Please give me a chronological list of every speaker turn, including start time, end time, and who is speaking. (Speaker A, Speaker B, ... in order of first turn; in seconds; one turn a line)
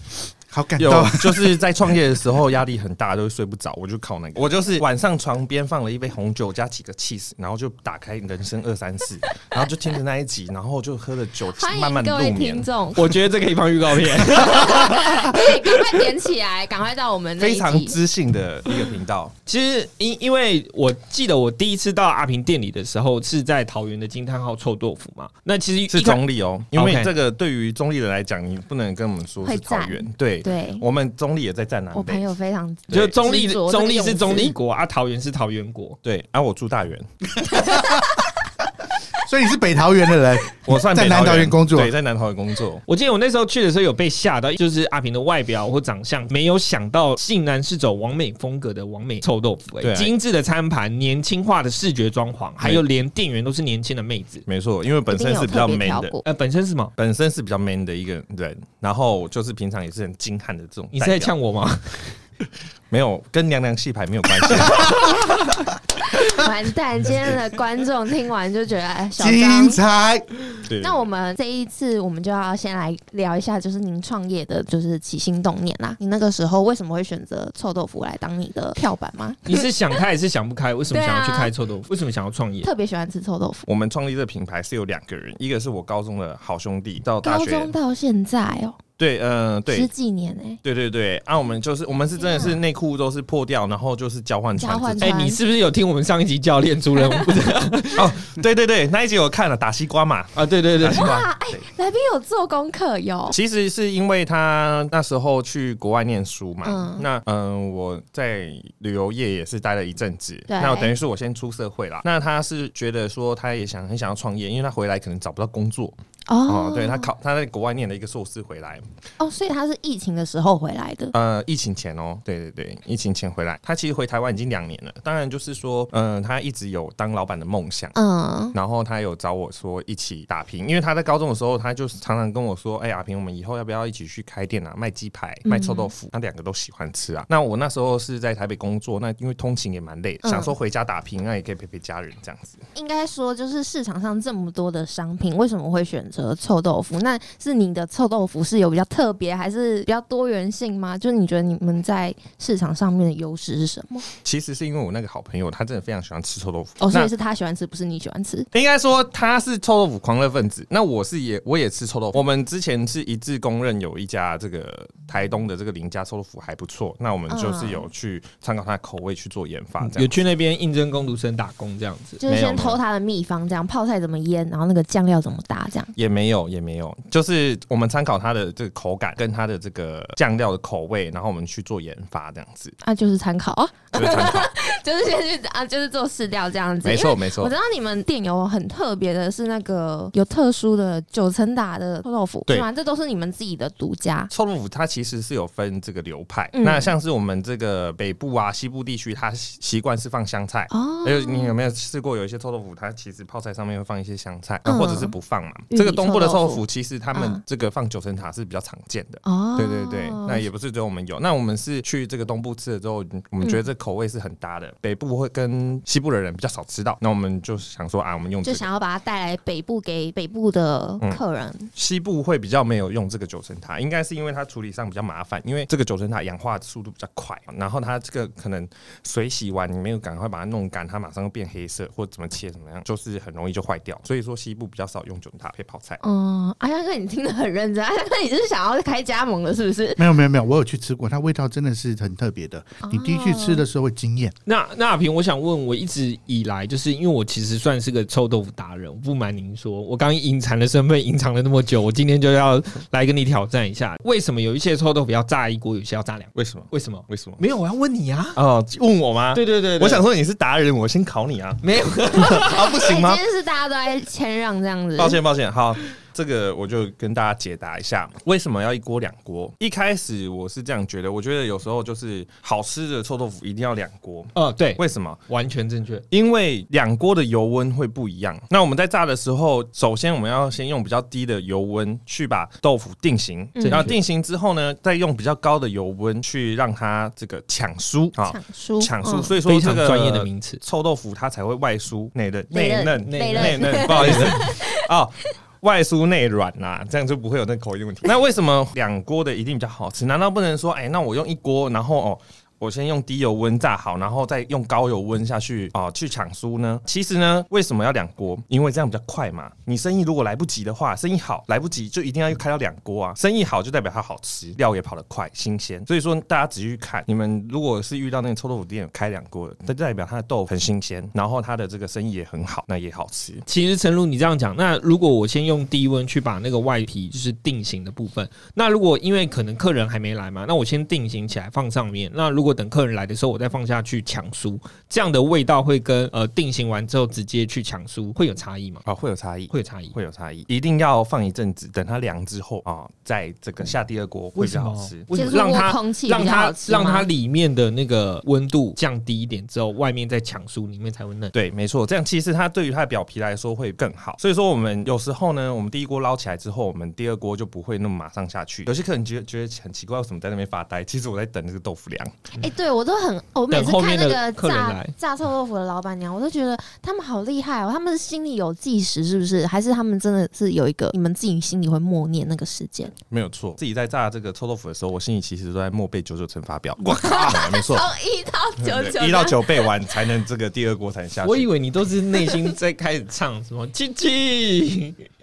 Speaker A: 0.5-1.6
Speaker B: 0.8-12.7
Speaker C: 11.5-13.1
Speaker D: 12.9-16.0
Speaker C: 14.4-18.0
Speaker B: 17.4-19.3
Speaker D: 19.5-26.2
Speaker B: 25.9-32.3
Speaker D: 26.7-27.1
Speaker C: 29.4-30.8
Speaker C: 31.9-34.5
Speaker D: 32.9-36.0
Speaker B: 36.0-37.0
Speaker A: 37.5-38.0
Speaker A: 39.2-41.9
Speaker B: 40.6-42.8
Speaker D: 42.9-54.4
Speaker B: 49.8-50.1
Speaker B: 54.5-56.2
Speaker C: 55.1-56.2
Speaker D: 56.2-56.9
Speaker B: 57.0-61.3
Speaker D: 60.9-62.2
Speaker B: 62.9-65.5
Speaker D: 64.7-65.1
Speaker C: 66.1-69.8
Speaker A: 69.2-70.3
Speaker B: 70.7-71.0
Speaker C: 70.8-79.7
Speaker D: 79.5-82.7
Speaker C: 80.9-81.5
Speaker C: 82.6-83.7
Speaker B: 83.7-87.7
Speaker C: 87.2-88.8
Speaker B: 89.0-89.9
Speaker C: 89.7-90.6
Speaker B: 90.6-95.2
Speaker C: 92.2-92.6
Speaker C: 94.6-95.4
Speaker D: 95.0-98.1
Speaker B: 98.0-101.6
Speaker D: 100.3-101.1
Speaker C: 101.0-103.3
Speaker B: 103.3-118.8
Speaker C: 106.7-107.1
Speaker C: 110.5-110.9
Speaker C: 116.3-117.1
Speaker C: 119.2-121.1
Speaker B: 121.1-128.0
Speaker C: 128.0-128.6
Speaker B: 128.5-142.6
Speaker C: 135.4-135.9
Speaker C: 140.2-140.5
Speaker C: 142.7-154.1
Speaker B: 154.2-157.1
Speaker C: 156.8-158.5
Speaker B: 158.5-170.2
Speaker C: 167.3-167.9
Speaker D: 169.8-172.2
Speaker C: 172.2-175.9
Speaker B: 172.3-172.8
Speaker B: 175.9-182.7
Speaker C: 182.8-194.3
Speaker B: 183.9-184.5
Speaker B: 186.8-187.5
Speaker B: 194.3-218.7
Speaker C: 196.5-196.9
Speaker C: 200.7-201.5
Speaker C: 204.7-205.2
Speaker C: 205.7-206.6
Speaker C: 207.1-207.4
Speaker C: 209.2-210.5
Speaker C: 218.4-221.7
Speaker B: 221.7-236.0
Speaker C: 236.0-240.0
Speaker A: 240.0-244.3
Speaker C: 242.8-243.7
Speaker D: 244.5-258.4
Speaker B: 256.4-257.4
Speaker B: 258.4-263.2
Speaker D: 259.3-260.0
Speaker D: 261.6-262.8
Speaker C: 262.2-265.2
Speaker B: 265.0-275.2
Speaker D: 274.4-276.0
Speaker B: 276.1-323.4
Speaker C: 283.5-283.9
Speaker D: 283.7-284.0
Speaker C: 288.3-289.3
Speaker D: 289.4-290.6
Speaker C: 292.5-294.8
Speaker D: 293.0-294.4
Speaker D: 323.5-338.8
Speaker B: 338.9-345.0
Speaker D: 339.5-339.9
Speaker D: 344.4-351.3
Speaker C: 345.1-347.1
Speaker B: 351.3-362.1
Speaker C: 362.4-372.9
Speaker D: 363.5-364.9
Speaker B: 373.1-377.9
Speaker C: 376.9-379.7
Speaker A: 377.0-377.3
Speaker B: 378.6-381.5
Speaker D: 381.2-385.1